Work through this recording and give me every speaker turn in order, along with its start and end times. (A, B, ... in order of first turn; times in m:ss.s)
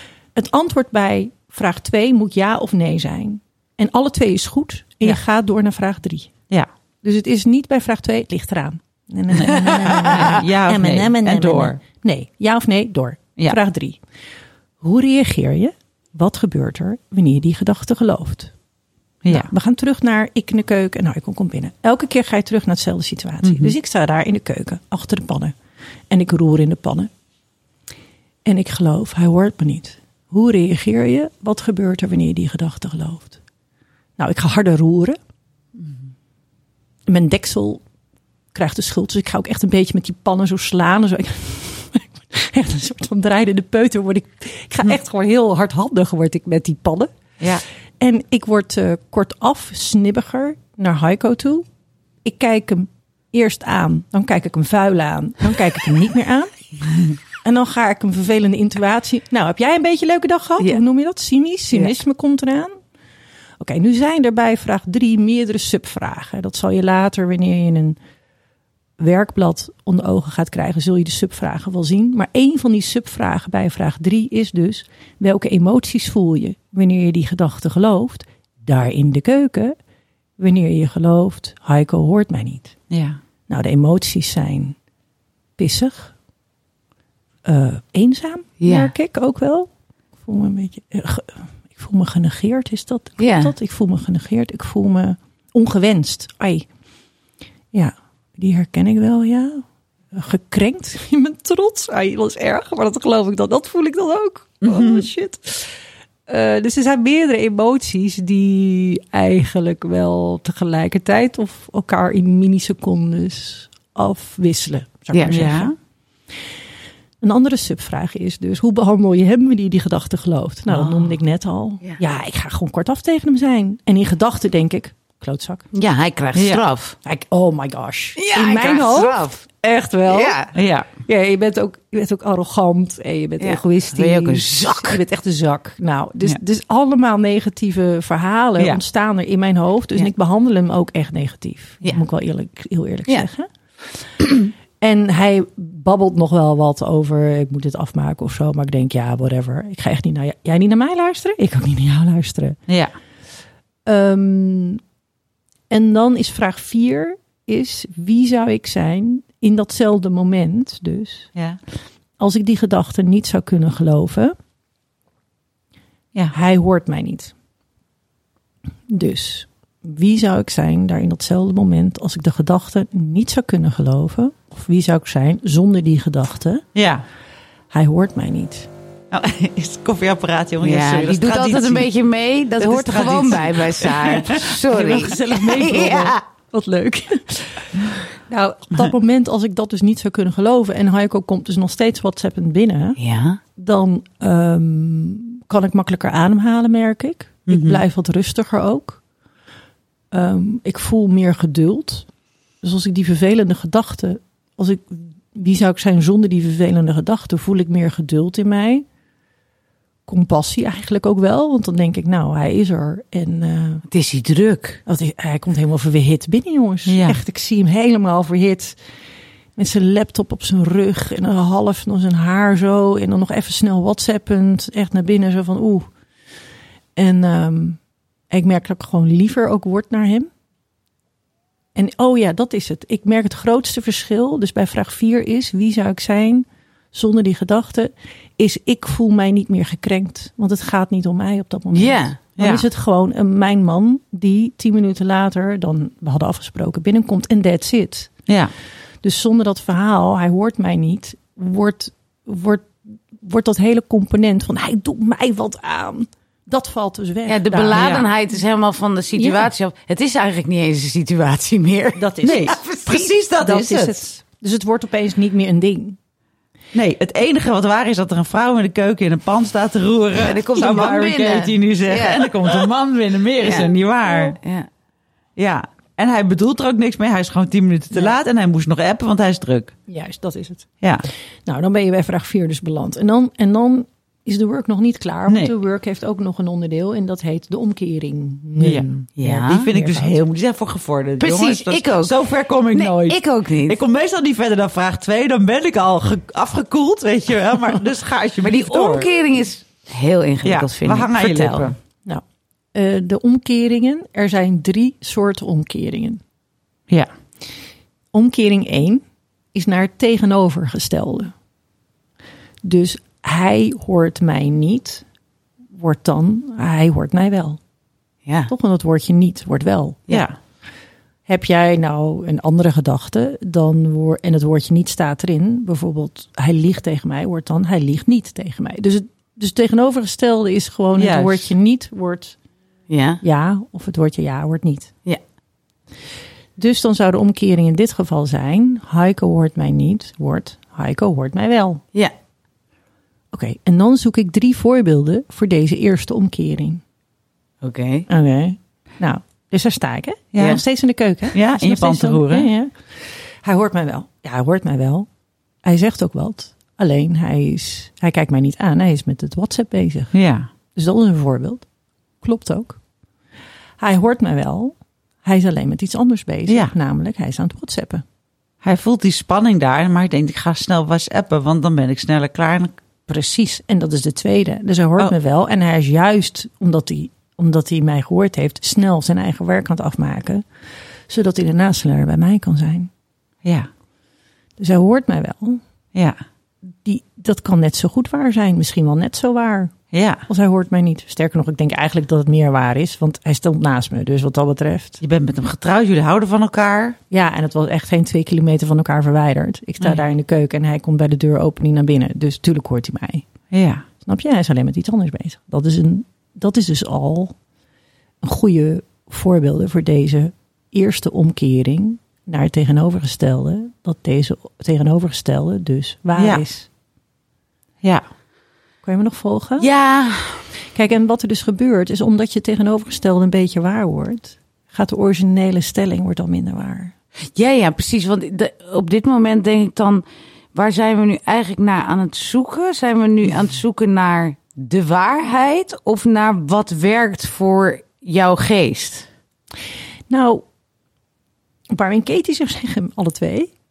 0:00.4-0:06.3 A
0:07.0-0:14.0 A
0:09.4-0:11.8 B
0:14.8-0:18.5 A
0:19.2-0:19.5 B
0:19.3-0:25.6 A
0:23.4-0:23.8 B
0:26.1-0:27.1 A
0:28.5-0:33.4 A
0:34.2-0:35.2 A
0:37.1-0:37.8 A
0:38.5-0:47.1 A
0:48.0-0:51.6 A
0:52.2-0:56.5 A
0:57.4-1:02.8 A
1:03.6-1:08.0 A
1:09.0-1:19.8 A
1:20.4-1:22.7 A
1:22.9-1:23.2 B
1:23.5-1:24.8 A
1:25.6-1:26.1 A
1:27.4-1:29.7 A
1:28.6-1:28.9 C
1:30.2-1:36.7 A
1:33.2-1:33.5 C
1:37.7-1:45.8 A
1:44.6-1:45.1 B
1:46.3-1:55.7 A
1:55.1-1:55.4 C
1:55.3-1:55.7 B
1:57.2-2:05.6 A
2:05.7-2:07.0 C
2:06.4-2:06.6 B
2:07.0-2:10.4 A
2:08.2-2:09.4 C
2:10.1-2:10.5 C
2:10.5-2:10.9 B
2:11.0-2:24.1 A
2:13.4-2:15.0 C
2:24.8-2:32.6 A
2:33.9-2:34.8 A
2:35.7-2:41.3 A
2:42.2-2:44.4 A
2:46.3-2:47.3 A
2:48.9-2:56.6 A
2:56.8-2:57.0 B
2:57.7-2:58.7 A
2:59.1-3:01.9 B
3:00.6-3:06.2 C
3:02.6-3:04.6 B
3:04.7-3:13.0 A
3:13.0-3:13.4 C
3:13.6-3:19.0 A
3:17.5-3:17.8 B
3:20.1-3:22.1 A
3:22.6-3:28.8 A
3:30.1-3:33.8 A
3:33.9-3:34.8 C
3:34.9-3:38.8 A
3:36.9-3:37.2 B
3:39.6-3:45.9 A
3:47.0-3:50.3 A
3:51.8-4:08.1 A
4:01.7-4:02.2 C
4:02.4-4:02.6 B
4:09.0-4:18.0 A
4:17.2-4:23.1 C
4:17.7-4:18.0 B
4:19.2-4:19.5 A
4:22.0-4:22.6 A
4:22.2-4:24.0 B
4:23.4-4:26.0 A
4:26.7-4:34.4 B
4:30.1-4:32.7 C
4:33.4-4:34.7 C
4:35.4-4:39.7 B
4:39.9-4:40.6 A
4:40.8-4:41.1 B
4:41.5-4:50.2 A
4:45.3-4:45.5 B
4:48.6-4:48.9 B
4:49.2-4:49.7 C
4:49.4-4:59.1 B
4:51.2-4:53.8 C
4:58.4-5:01.7 C
5:00.4-5:01.8 B
5:02.7-5:06.2 A
5:08.1-5:09.0 A
5:09.5-5:11.3 A
5:12.6-5:15.0 A
5:15.7-5:17.6 A
5:18.2-5:18.5 C
5:18.5-5:20.2 A
5:21.3-5:32.4 A
5:31.0-5:31.5 B
5:32.9-5:33.2 C
5:33.2-5:34.9 A
5:36.6-5:41.8 A
5:43.3-5:46.8 A
5:47.6-5:48.1 C
5:48.1-5:52.7 A
5:50.4-5:50.6 B
5:51.3-5:52.5 B
5:53.4-5:55.1 A
5:55.6-6:00.1 A
6:00.1-6:00.5 B
6:00.8-6:01.6 A
6:02.2-6:02.8 A
6:03.8-6:08.0 A
6:06.5-6:06.7 B
6:08.6-6:12.8 B
6:13.1-6:20.4 A
6:21.1-6:22.9 A
6:24.6-6:25.6 A
6:26.7-6:29.7 A
6:29.9-6:30.2 B
6:30.3-6:35.0 A
6:35.0-6:37.0 B
6:37.1-6:43.2 A
6:43.5-6:43.8 B
6:44.0-6:47.3 A
6:48.2-6:56.7 A
6:56.2-6:56.4 B
6:58.8-6:59.7 A
6:59.6-7:00.4 C
7:00.7-7:06.9 A
7:07.3-7:19.1 C
7:20.1-7:20.4 A
7:21.7-7:23.5 A